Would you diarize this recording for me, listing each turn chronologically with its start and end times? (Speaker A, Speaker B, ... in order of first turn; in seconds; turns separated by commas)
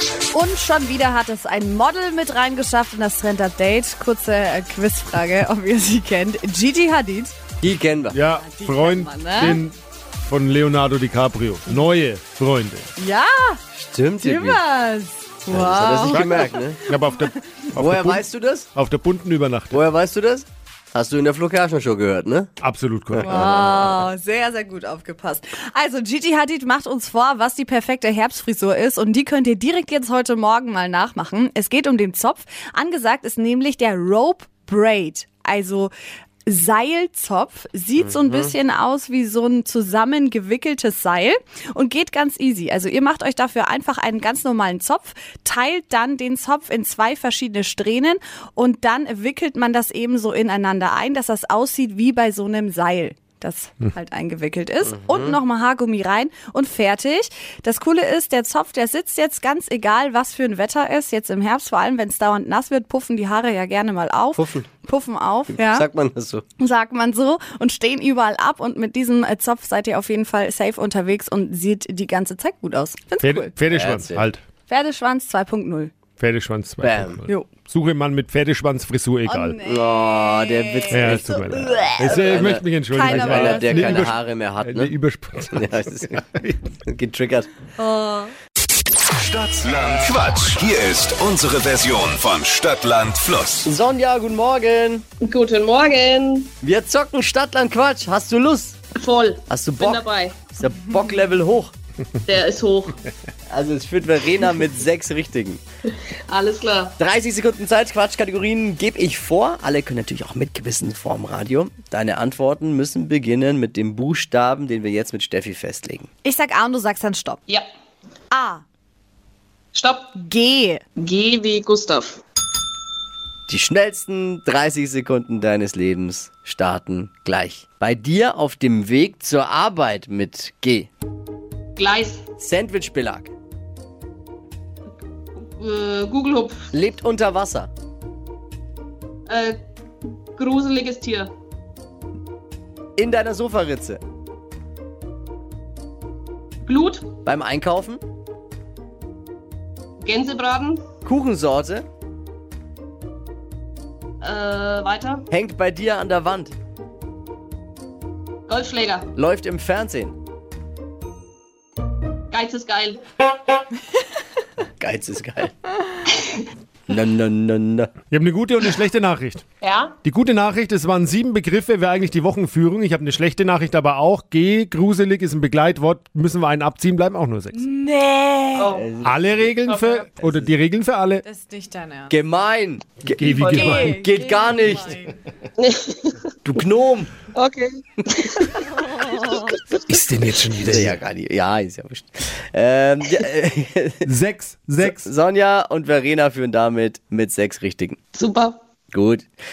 Speaker A: 0.3-7.3, Speaker B: 7.6-8.2, Speaker C: 8.1-12.9, Speaker A: 8.3-9.6, Speaker A: 13.0-13.6, Speaker B: 13.7-14.6, Speaker A: 14.2-17.4, Speaker B: 15.5-16.8, Speaker C: 16.0-19.8, Speaker B: 17.7-18.7, Speaker B: 19.7-22.5, Speaker C: 22.6-23.6, Speaker B: 23.1-23.9, Speaker A: 23.2-35.9, Speaker A: 36.5-65.8, Speaker B: 38.0-38.5, Speaker B: 54.8-55.4, Speaker B: 64.3-64.7, Speaker B: 65.5-66.4, Speaker A: 66.6-73.5, Speaker C: 73.2-74.4, Speaker B: 73.7-74.3, Speaker A: 74.7-75.9, Speaker C: 76.2-79.6, Speaker B: 76.8-77.2, Speaker A: 79.3-81.2, Speaker B: 79.6-84.9, Speaker C: 80.9-86.5, Speaker A: 82.9-84.1, Speaker B: 85.5-87.5, Speaker A: 87.8-88.3, Speaker D: 89.2-93.7, Speaker B: 93.6-95.0, Speaker E: 95.2-96.5, Speaker B: 96.6-98.8, Speaker E: 99.0-100.5, Speaker B: 99.5-101.7, Speaker E: 102.2-103.0, Speaker B: 103.5-105.6, Speaker E: 106.3-106.9, Speaker B: 107.0-116.1, Speaker A: 116.2-117.4, Speaker A: 118.3-118.6, Speaker E: 119.7-120.1, Speaker A: 120.1-120.8, Speaker E: 121.0-122.2, Speaker B: 123.5-130.9, Speaker E: 131.8-132.2, Speaker B: 132.4-133.3, Speaker E: 135.4-136.6, Speaker B: 136.7-137.7, Speaker E: 139.3-139.6, Speaker E: 140.4-141.3, Speaker B: 143.0-144.0, Speaker E: 146.7-147.1, Speaker B: 147.2-148.0, Speaker E: 150.0-150.8, Speaker B: 151.0-151.8, Speaker E: 154.2-155.2, Speaker B: 155.3-156.5, Speaker E: 158.5-159.1, Speaker B: 159.1-160.2, Speaker E: 162.3-163.0, Speaker B: 164.8-165.5, Speaker B: 166.9-167.9, Speaker C: 168.1-169.4, Speaker E: 169.6-169.9, Speaker C: 170.0-177.6, Speaker A: 177.5-178.7, Speaker E: 178.6-178.9, Speaker B: 178.7-179.5, Speaker C: 179.0-181.2, Speaker E: 179.7-180.1, Speaker A: 181.2-182.2, Speaker B: 182.1-185.0, Speaker C: 183.2-184.0, Speaker A: 183.4-185.1, Speaker E: 185.6-186.2, Speaker B: 186.4-187.1, Speaker E: 187.3-188.6, Speaker A: 188.8-189.5, Speaker C: 189.8-191.0, Speaker B: 190.6-194.0, Speaker C: 194.0-195.1, Speaker B: 194.8-198.0, Speaker E: 198.1-198.6, Speaker B: 198.9-199.2